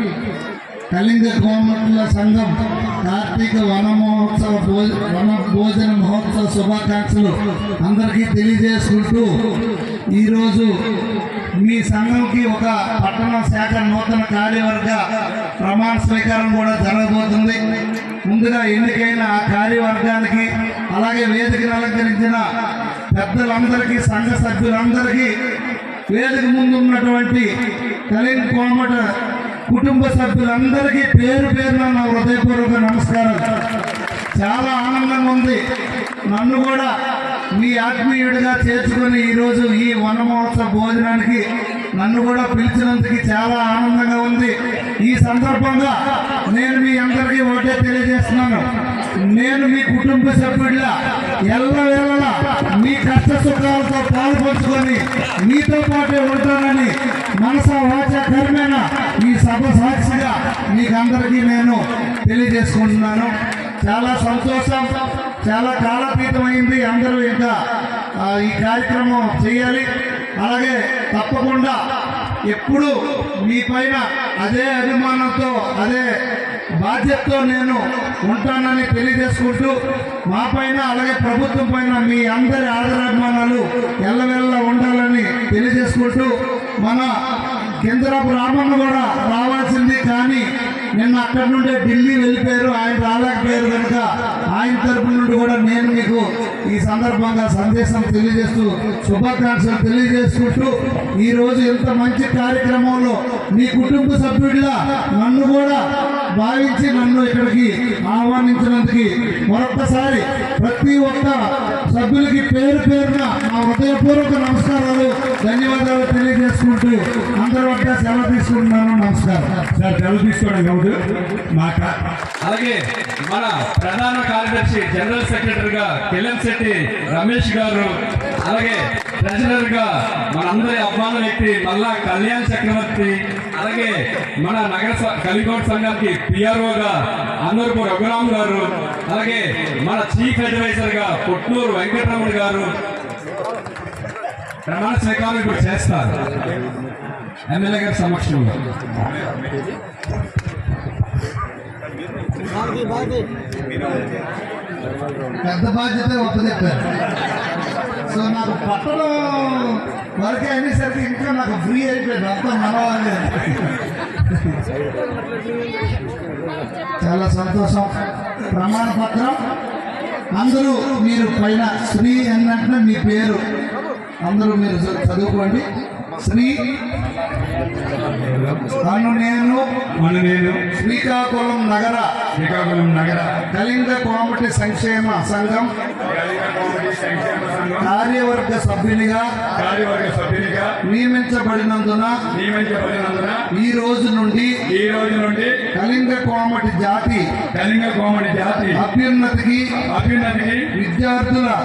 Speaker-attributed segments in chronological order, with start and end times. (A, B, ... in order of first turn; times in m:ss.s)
0:00.9-0:09.3 A
0:10.2-0:10.7 A
0:11.6-0:15.0 A
0:15.6-0:17.6 A
0:18.3-0:22.4 A
0:23.1-0:25.3 A
0:26.1-0:27.5 A
0:28.1-0:29.0 A
0:29.7-0:33.4 A
0:34.4-0:35.6 A
0:36.3-0:36.9 A
0:37.6-0:41.4 A
0:42.0-0:45.9 A
0:46.5-0:48.6 A
0:49.2-0:50.9 A
0:51.5-1:03.3 A
1:03.8-1:04.8 A
1:05.4-1:07.5 A
1:08.2-1:09.9 A
1:10.4-1:11.8 A
1:12.5-1:12.9 A
1:13.4-1:16.0 A
1:16.8-1:19.7 A
1:20.3-1:26.3 A
1:26.8-1:27.1 A
1:27.8-1:30.4 A
1:31.0-1:45.8 A
1:46.4-1:59.5 A
1:59.8-2:00.9 B
2:01.5-2:22.7 B
2:24.7-2:26.2 B
2:27.5-2:28.5 B
2:35.4-2:36.8 A
2:38.1-2:43.6 A
2:47.0-2:47.9 A
2:48.5-2:49.4 A
2:50.3-2:53.4 A
2:54.2-2:55.6 A
2:56.2-2:56.6 A
2:58.8-2:59.6 A
3:00.0-3:00.6 B
3:00.7-3:02.1 A
3:02.4-3:03.2 B
3:03.5-3:05.7 A
3:06.1-3:07.8 B
3:07.8-3:09.3 A
3:09.6-3:10.7 B
3:10.8-3:12.1 A
3:12.4-3:13.4 B
3:13.5-3:14.5 A
3:14.8-3:15.5 B
3:15.7-3:17.2 A
3:17.6-3:18.7 B
3:18.8-3:19.7 A
3:20.0-3:20.6 B
3:20.7-3:21.6 A